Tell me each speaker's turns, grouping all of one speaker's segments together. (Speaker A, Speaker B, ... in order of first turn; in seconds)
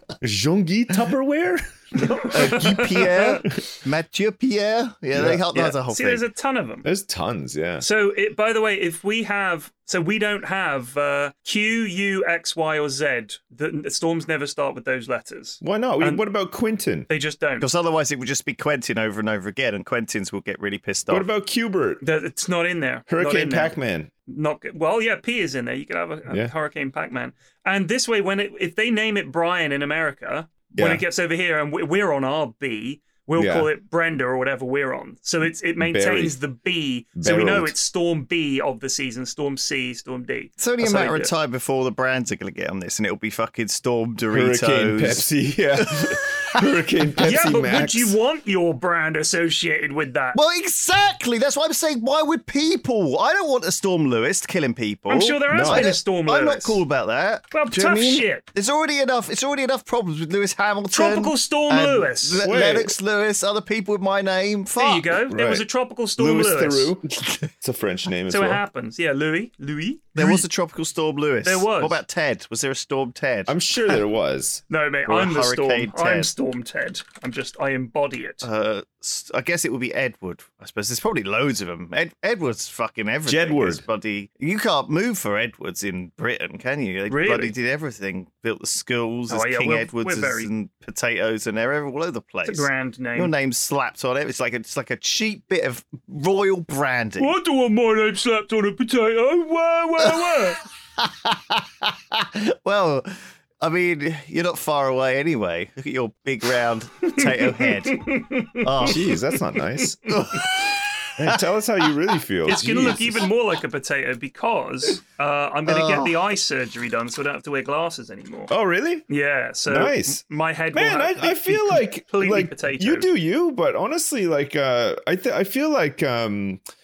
Speaker A: 0.2-2.1, 5.1-5.4, 6.8-7.8, 15.6-17.1, 21.1-22.0, 23.1-24.1, 26.3-26.5, 30.8-31.0, 33.4-33.7, 35.8-36.4, 37.1-37.7, 44.3-48.1, 55.5-55.9, 62.4-62.9, 65.3-65.6, 66.2-68.6, 73.5-74.6, 83.2-83.8, 108.8-110.0, 111.2-113.3, 118.5-119.0, 119.7-120.2, 120.7-126.6
Speaker B: 2.0-3.6, 5.5-6.9, 7.8-16.2, 17.1-17.6, 22.0-23.7, 24.3-41.3, 47.2-50.4, 55.1-56.8, 57.5-58.4, 60.9-62.4, 64.8-66.9, 68.3-70.4, 71.4-72.0, 74.7-78.4, 87.1-87.5, 89.3-90.5, 92.4-93.3, 97.2-100.6, 107.1-109.2, 109.8-110.5, 112.5-118.5, 119.1-123.1
Speaker C: 2.2-6.2, 17.6-21.3, 40.6-45.3, 50.3-65.1, 70.2-73.5, 75.0-76.3, 78.4-97.3, 101.0-109.0, 110.1-111.1, 115.7-116.2